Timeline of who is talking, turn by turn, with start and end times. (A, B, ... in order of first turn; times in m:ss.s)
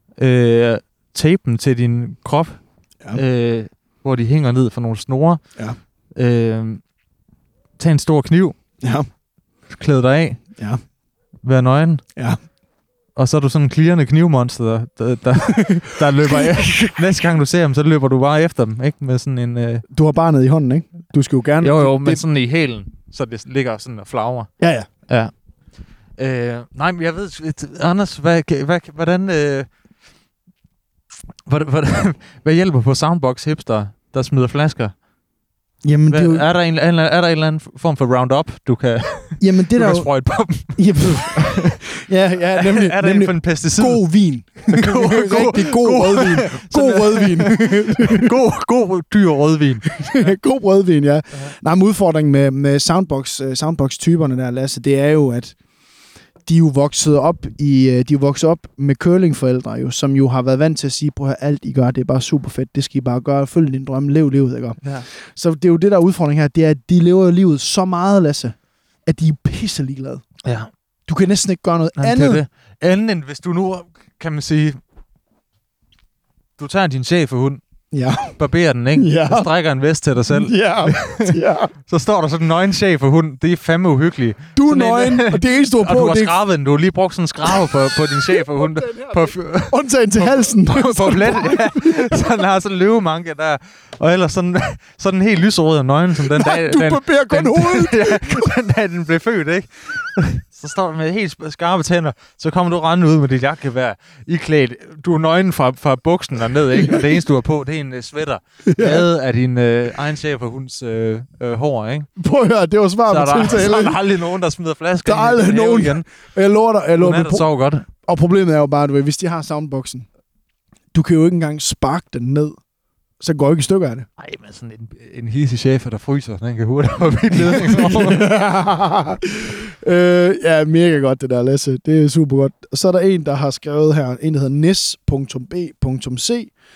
0:00.2-0:02.6 A
0:03.1-0:05.4 A
0:06.2-0:06.8 A
0:07.8-0:08.6 A
0:08.8-0:09.0 B
0:09.7-0:10.4 A
0:11.4-0:12.0 A
0:13.2-0:19.8 A
0:15.5-0:17.0 B
0:19.9-0:22.2 B
0:21.6-0:24.5 A
0:24.6-0:24.9 B
0:25.0-0:25.3 A
0:26.2-0:29.7 A
0:31.4-0:34.9 A
0:35.8-0:36.4 B
0:36.1-0:41.8 A
0:39.4-0:48.3 B
0:42.6-0:44.0 A
0:44.7-0:50.3 A
0:50.0-0:55.6 B
0:56.4-1:04.8 B
1:04.8-1:05.1 A
1:05.3-1:08.5 B
1:09.0-1:10.2 B
1:10.4-1:10.7 A
1:11.1-1:12.4 B
1:12.0-1:14.8 A
1:16.6-1:17.6 A
1:17.9-1:18.4 B
1:18.4-1:52.1 A
1:19.0-1:19.5 B
1:20.3-1:21.7 B
1:24.6-1:26.4 B
1:27.5-1:32.3 B
1:36.3-1:38.5 B
1:48.7-1:49.0 B
1:52.2-1:54.0 B
1:53.1-1:56.0 A
1:55.0-1:57.4 B
1:57.0-1:57.8 A
1:58.0-2:00.0 B
2:00.9-2:02.5 B
2:03.2-2:04.1 B
2:04.2-2:08.2 A
2:07.4-2:16.5 B